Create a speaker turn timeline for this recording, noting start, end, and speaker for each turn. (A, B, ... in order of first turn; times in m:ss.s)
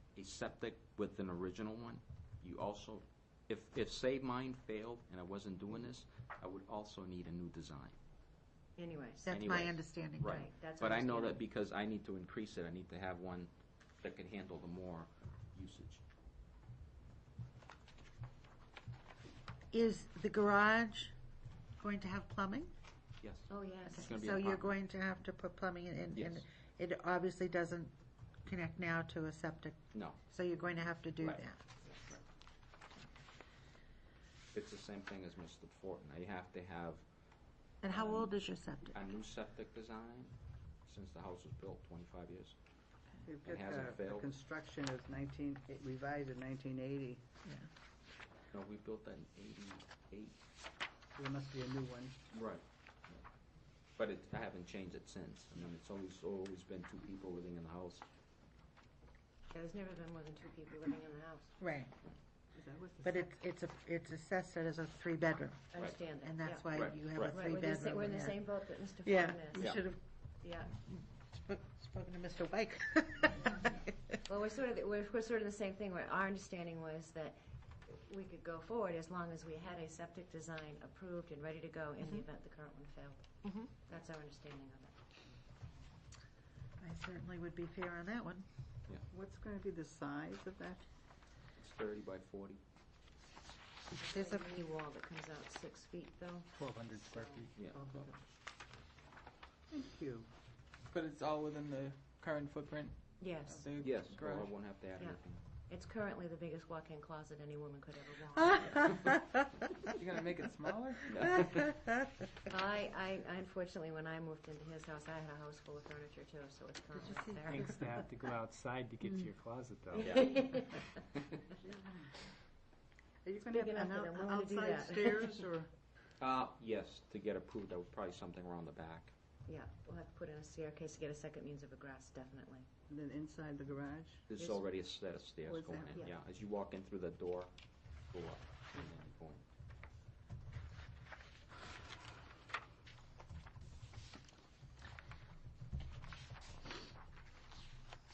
0:00.2-0:07.9 A
0:08.8-0:09.3 B
0:09.2-0:10.4 C
0:09.3-0:16.0 A
0:10.2-0:11.4 B
0:19.7-0:21.1 C
0:21.8-0:22.7 C
0:23.2-0:23.5 A
0:23.5-0:24.1 B
0:23.8-0:27.9 C
0:24.0-0:24.8 A
0:26.1-0:26.4 A
0:28.4-0:31.6 C
0:29.9-0:30.2 A
0:31.2-0:32.2 A
0:34.5-0:37.0 A
0:37.8-0:39.0 C
0:37.9-0:38.3 A
0:38.9-0:40.3 A
0:40.8-0:42.5 A
0:43.2-0:47.2 D
0:43.4-0:44.3 A
0:48.5-0:50.4 A
0:51.1-0:52.2 D
0:52.3-0:53.2 A
0:54.0-0:58.0 A
0:59.5-1:01.6 B
1:01.6-1:01.9 C
1:02.5-1:03.3 D
1:03.0-1:08.5 C
1:05.7-1:06.7 B
1:06.7-1:07.5 A
1:07.2-1:09.8 B
1:09.0-1:10.0 C
1:09.6-1:09.8 A
1:10.4-1:10.7 B
1:10.6-1:14.2 C
1:14.3-1:24.9 B
1:23.4-1:23.7 C
1:26.8-1:28.4 C
1:29.1-1:30.8 D
1:31.6-1:32.6 A
1:34.0-1:37.5 B
1:34.0-1:34.6 C
1:36.6-1:37.5 E
1:37.5-1:38.1 A
1:37.7-1:38.1 D
1:39.7-1:40.3 D
1:40.9-1:44.6 F
1:43.2-1:43.7 B
1:43.8-1:45.4 A
1:45.0-1:49.0 B
1:51.1-1:51.7 A
1:52.5-1:57.8 B
1:56.9-1:57.9 C
1:57.5-2:00.4 E
1:59.9-2:00.9 B
2:00.0-2:00.5 A
2:01.6-2:02.2 D
2:03.2-2:05.7 D
2:03.5-2:05.4 B
2:06.2-2:09.1 A
2:09.4-2:12.7 B
2:12.9-2:14.3 D
2:14.3-2:17.5 A
2:14.4-2:14.6 B
2:15.4-2:16.0 D
2:18.1-2:19.4 A